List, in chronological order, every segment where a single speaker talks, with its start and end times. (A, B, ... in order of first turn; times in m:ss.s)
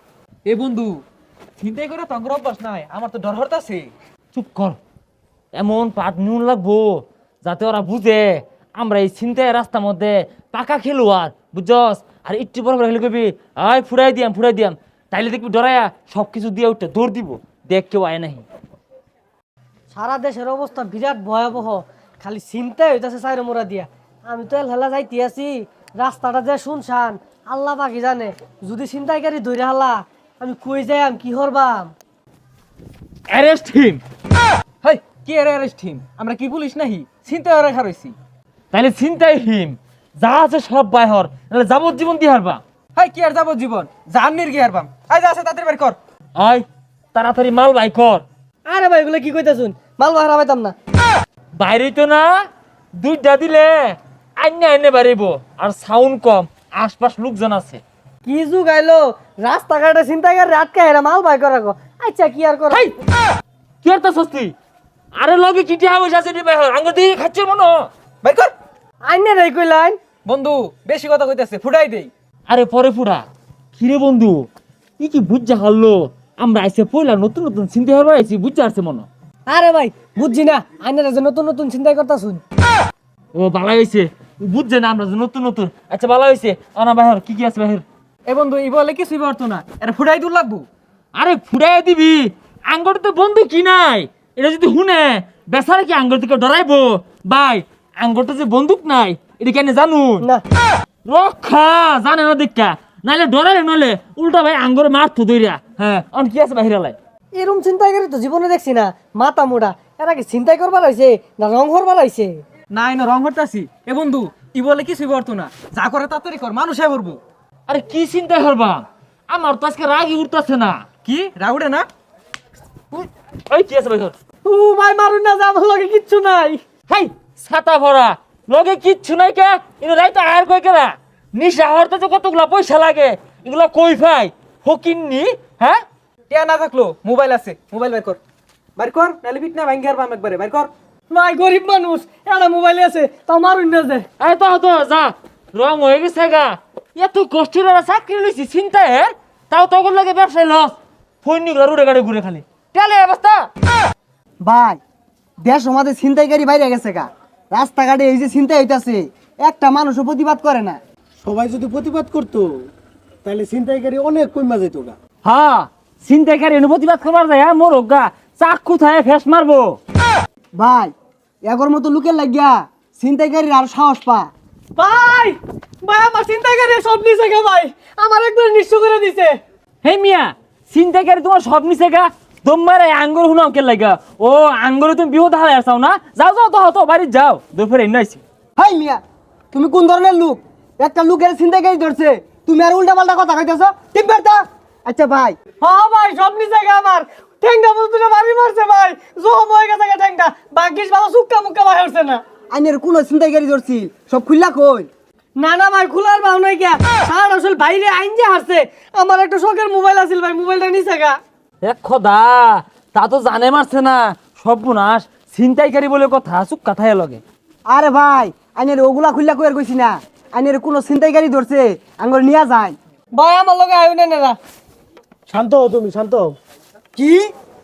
0:00.4-0:01.0 A
0:01.6-0:03.9 A
0:04.3-0:04.8 B
0:05.5-0:18.4 B
0:19.9-0:31.9 C
0:33.3-0:34.0 B
0:34.8-0:38.2 A
0:38.7-0:42.6 B
0:43.0-0:46.0 A
0:46.4-0:48.2 B
0:48.7-0:50.7 C
0:51.6-0:52.4 B
0:53.0-0:57.8 B
0:58.2-1:02.8 C
1:02.7-1:03.0 B
1:03.8-1:04.6 B
1:05.2-1:07.9 B
1:08.2-1:08.5 A
1:09.0-1:10.0 C
1:10.2-1:12.1 A
1:12.5-1:14.5 B
1:15.0-1:19.1 B
1:19.5-1:22.4 C
1:23.4-1:27.8 B
1:28.3-1:30.7 A
1:31.2-1:40.3 B
1:41.1-1:47.0 B
1:47.3-1:52.4 C
1:52.7-1:57.2 A
1:57.7-2:00.9 B
2:01.0-2:01.9 A
2:03.0-2:04.2 B
2:04.4-2:06.6 C
2:06.9-2:15.8 B
2:16.3-2:18.2 A
2:18.8-2:20.7 A
2:21.1-2:24.1 C
2:24.2-2:33.5 B
2:34.4-2:34.8 D
2:35.4-2:40.8 D
2:41.2-2:42.6 E
2:43.2-2:44.9 E
2:45.2-2:49.8 B
2:50.6-2:50.9 D
2:51.5-2:54.3 D
2:54.8-2:59.3 C
2:59.8-3:08.2 B
3:08.6-3:09.0 D
3:09.5-3:15.4 D
3:15.6-3:22.2 C
3:22.5-3:24.9 D
3:25.4-3:31.2 C
3:31.6-3:37.2 B
3:37.7-3:42.8 D
3:43.1-3:44.4 C
3:45.4-3:46.3 E
3:47.0-3:47.3 D